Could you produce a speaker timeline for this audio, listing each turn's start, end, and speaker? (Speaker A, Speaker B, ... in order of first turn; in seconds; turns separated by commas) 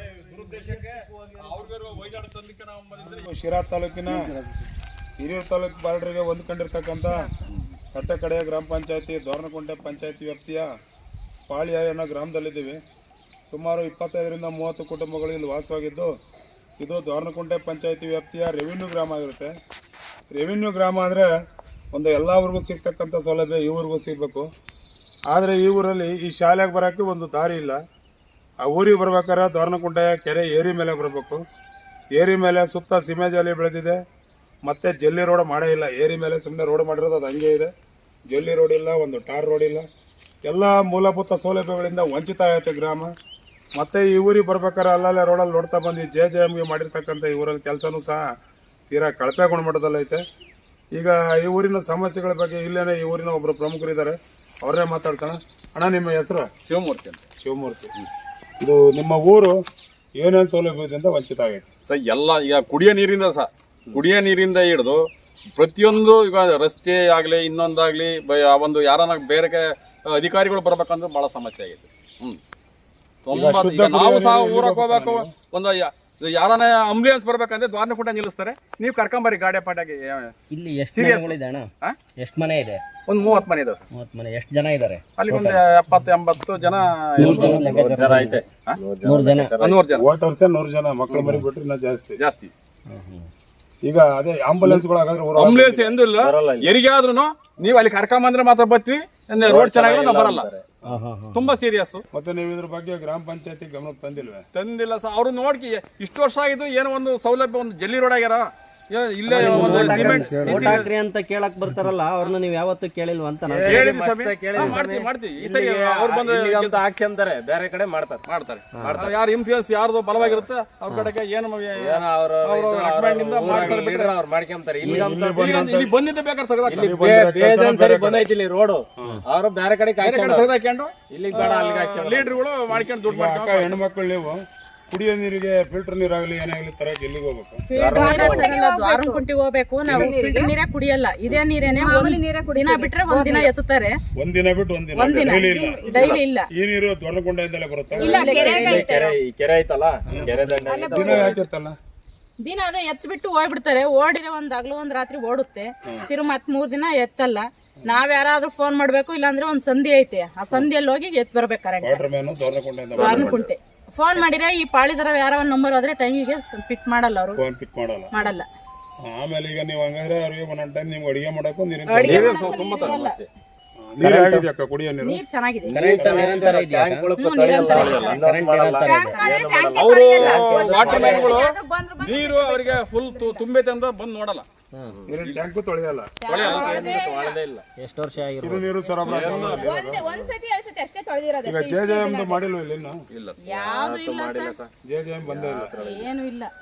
Speaker A: 0.3-3.3, Speaker B: 3.2-4.4, Speaker B: 5.2-7.3, Speaker B: 7.9-10.7, Speaker B: 11.5-12.8, Speaker B: 13.5-16.1, Speaker B: 16.8-19.6, Speaker B: 20.3-21.3, Speaker B: 21.9-24.5, Speaker B: 25.3-27.8, Speaker B: 28.6-31.4, Speaker B: 32.1-34.0, Speaker B: 34.6-37.7, Speaker B: 38.3-39.9, Speaker B: 40.4-43.1, Speaker B: 43.8-48.2, Speaker B: 48.9-50.2, Speaker B: 50.9-56.5, Speaker A: 56.6-57.2, Speaker B: 57.4-57.9, Speaker B: 58.6-59.6, Speaker B: 60.2-61.7, Speaker A: 61.9-65.0, Speaker A: 65.5-72.4, Speaker A: 73.3-80.3, Speaker B: 73.3-75.3, Speaker C: 80.5-81.7, Speaker A: 80.9-82.0, Speaker C: 82.2-82.8, Speaker A: 83.1-83.8, Speaker C: 83.9-85.6, Speaker A: 85.2-87.7, Speaker C: 87.2-88.4, Speaker B: 87.2-87.5, Speaker D: 87.3-89.8, Speaker C: 89.0-89.5, Speaker A: 89.6-90.0, Speaker B: 90.0-92.2, Speaker A: 92.2-92.5, Speaker C: 92.9-93.3, Speaker B: 93.8-96.0, Speaker A: 95.4-100.5, Speaker D: 96.2-96.7, Speaker D: 99.4-100.6, Speaker C: 100.9-101.5, Speaker A: 101.3-102.0, Speaker B: 102.1-104.5, Speaker A: 104.5-110.9, Speaker C: 109.3-113.9, Speaker D: 109.5-110.4, Speaker D: 113.5-118.2, Speaker A: 113.6-116.8, Speaker A: 118.3-124.2, Speaker D: 118.8-119.2, Speaker D: 120.2-120.5, Speaker D: 121.8-125.7, Speaker B: 123.5-123.8, Speaker B: 124.8-125.9, Speaker A: 125.4-127.0, Speaker D: 126.7-130.5, Speaker B: 126.7-128.3, Speaker A: 130.0-133.8, Speaker D: 131.1-132.4, Speaker B: 133.1-137.7, Speaker E: 137.7-144.0, Speaker D: 137.8-138.6, Speaker F: 137.9-139.2, Speaker F: 139.9-140.5, Speaker F: 141.7-143.5, Speaker B: 144.2-146.0, Speaker E: 144.9-146.5, Speaker F: 145.2-146.1, Speaker A: 145.9-146.2, Speaker B: 146.5-148.8, Speaker F: 147.9-149.2, Speaker E: 148.0-148.9, Speaker D: 148.1-151.4, Speaker B: 150.1-151.8, Speaker F: 150.6-151.4, Speaker E: 152.4-162.0, Speaker B: 161.8-163.4, Speaker A: 163.0-163.5, Speaker E: 163.0-167.4, Speaker B: 167.4-168.1, Speaker E: 168.1-168.4, Speaker B: 169.1-172.4, Speaker E: 171.9-173.2, Speaker A: 172.0-173.2, Speaker D: 172.3-173.2, Speaker B: 173.8-175.2, Speaker C: 174.1-174.4, Speaker E: 175.0-176.0, Speaker D: 175.7-181.4, Speaker C: 175.7-177.1, Speaker B: 176.0-176.5, Speaker E: 177.2-178.2, Speaker A: 177.6-178.2, Speaker C: 177.7-179.2, Speaker F: 178.8-183.4, Speaker A: 179.7-184.5, Speaker C: 180.9-181.3, Speaker B: 185.1-186.2, Speaker F: 186.2-187.4, Speaker A: 186.3-187.0, Speaker E: 186.4-186.8, Speaker D: 186.4-187.6, Speaker C: 187.8-188.7, Speaker B: 188.4-190.1, Speaker F: 189.0-192.4, Speaker A: 189.1-189.8, Speaker D: 190.1-190.3, Speaker B: 191.4-193.0, Speaker A: 193.1-193.4, Speaker E: 193.4-194.6, Speaker D: 193.5-194.7, Speaker B: 194.8-195.8, Speaker D: 195.2-196.1, Speaker E: 195.8-196.5